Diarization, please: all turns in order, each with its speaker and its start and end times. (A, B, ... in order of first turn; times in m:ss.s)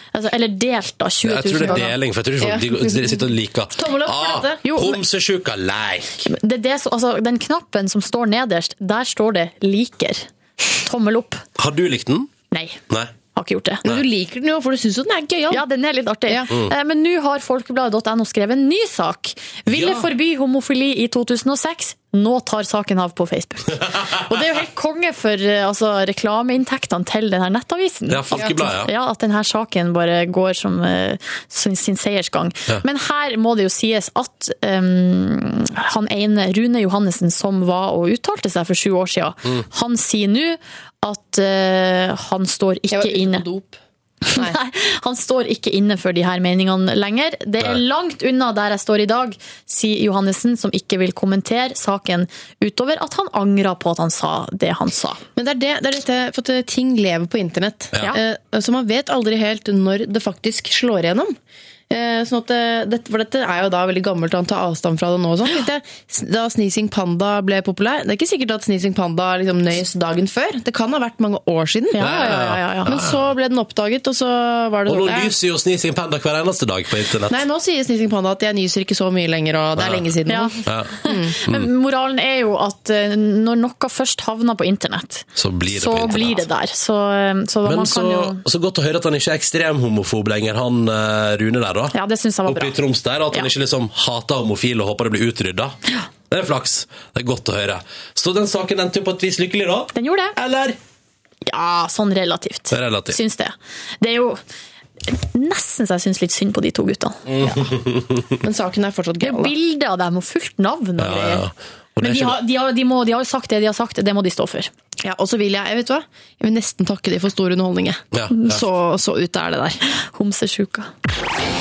0:00.1-0:01.9 A
0:01.2-0:06.3 B
0:01.6-0:04.6 C
0:04.6-0:05.0 A
0:06.2-0:11.4 A
0:11.6-0:12.3 B
0:12.5-0:12.8 A
0:13.3-0:13.8 A
0:13.8-0:15.6 C
0:15.5-0:43.4 A
0:19.7-0:20.1 B
0:28.1-0:28.9 B
0:42.9-0:43.8 C
0:44.3-0:55.2 A
0:55.4-1:01.4 C
1:01.9-1:12.0 C
1:11.9-1:13.0 A
1:12.0-1:13.3 B
1:12.8-1:15.3 C
1:14.8-1:17.4 B
1:17.3-1:21.3 C
1:19.8-1:20.1 B
1:20.3-1:28.4 A
1:20.6-1:20.9 B
1:25.4-1:26.5 B
1:27.6-1:31.9 B
1:31.9-1:32.7 A
1:32.4-1:35.8 B
1:36.3-1:40.8 B
1:39.9-1:40.4 A
1:41.4-1:44.4 A
1:42.7-1:43.2 B
1:45.0-1:47.2 A
1:47.2-1:48.2 B
1:47.4-1:47.7 C
1:48.4-1:49.5 C
1:49.2-1:51.4 A
1:51.0-1:52.4 B
1:52.0-1:54.7 A
1:55.0-1:59.8 C
1:58.1-1:58.6 B
1:59.9-2:00.9 A